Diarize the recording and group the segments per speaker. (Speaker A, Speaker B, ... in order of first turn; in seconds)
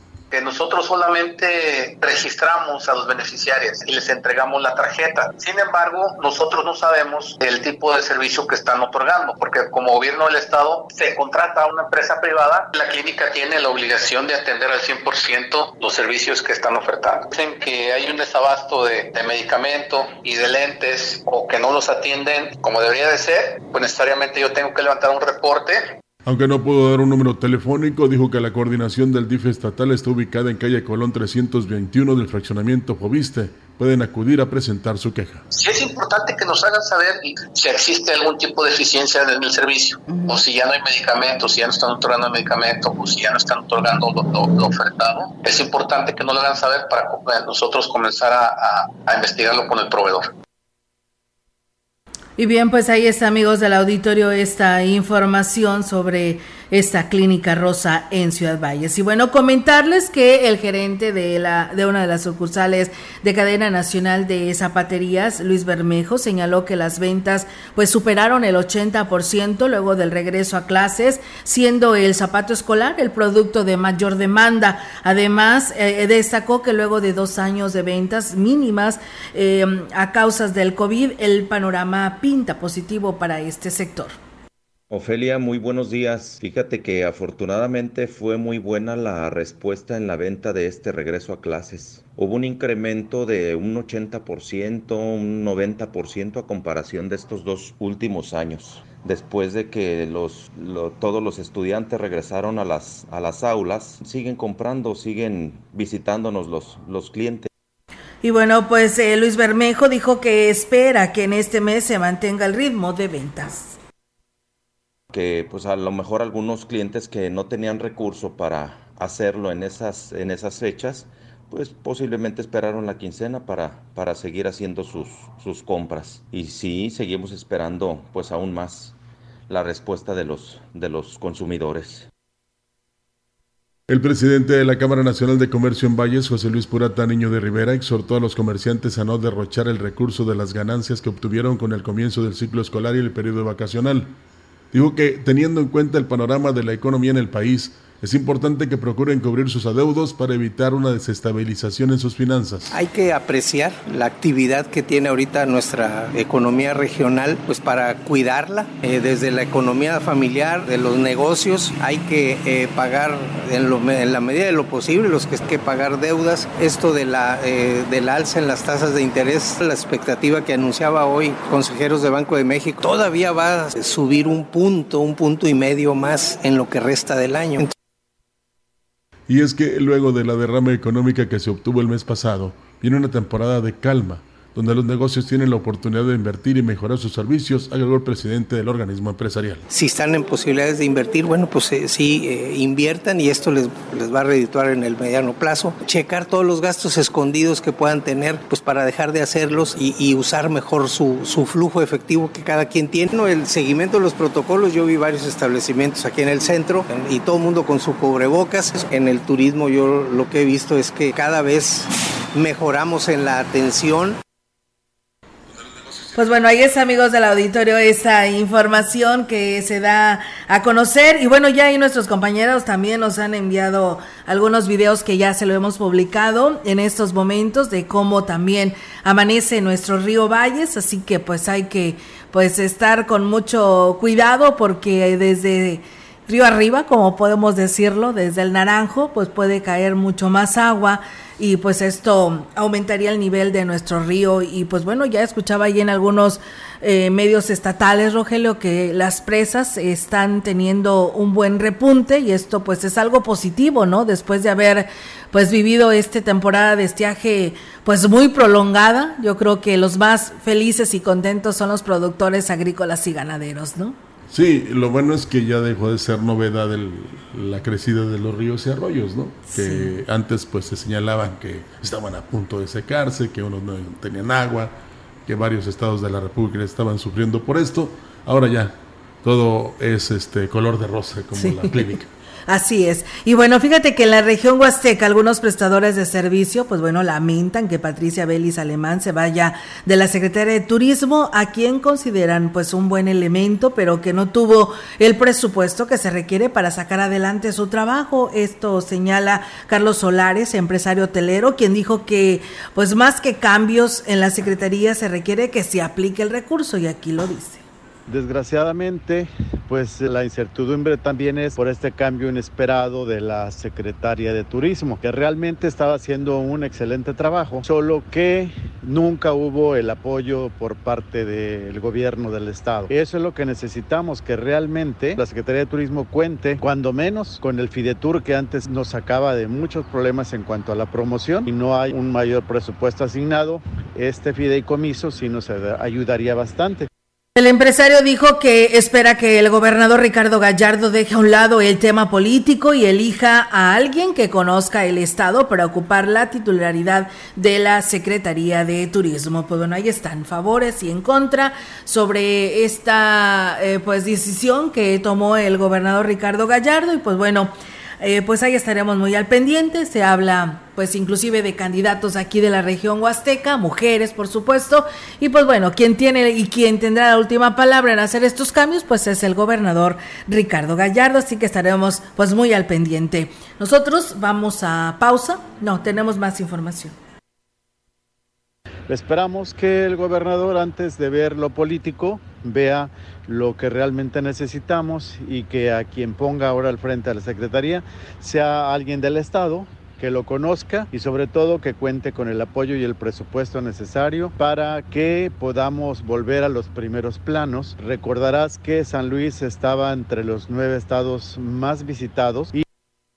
Speaker A: 0.3-25.8, 35.5-50.2
Speaker B: 26.2-35.4, 133.9-144.1, 144.7-152.7, 179.3-189.6, 264.3-274.7, 275.2-282.1
Speaker C: 52.4-84.1, 108.2-113.8, 216.1-264.0, 269.5-269.9, 281.4-281.9, 282.5-307.6, 337.4-376.9
Speaker D: 84.9-107.5, 115.1-128.9, 129.5-132.1
Speaker E: 152.7-177.7, 189.7-214.2
Speaker F: 308.1-336.9, 378.9-402.6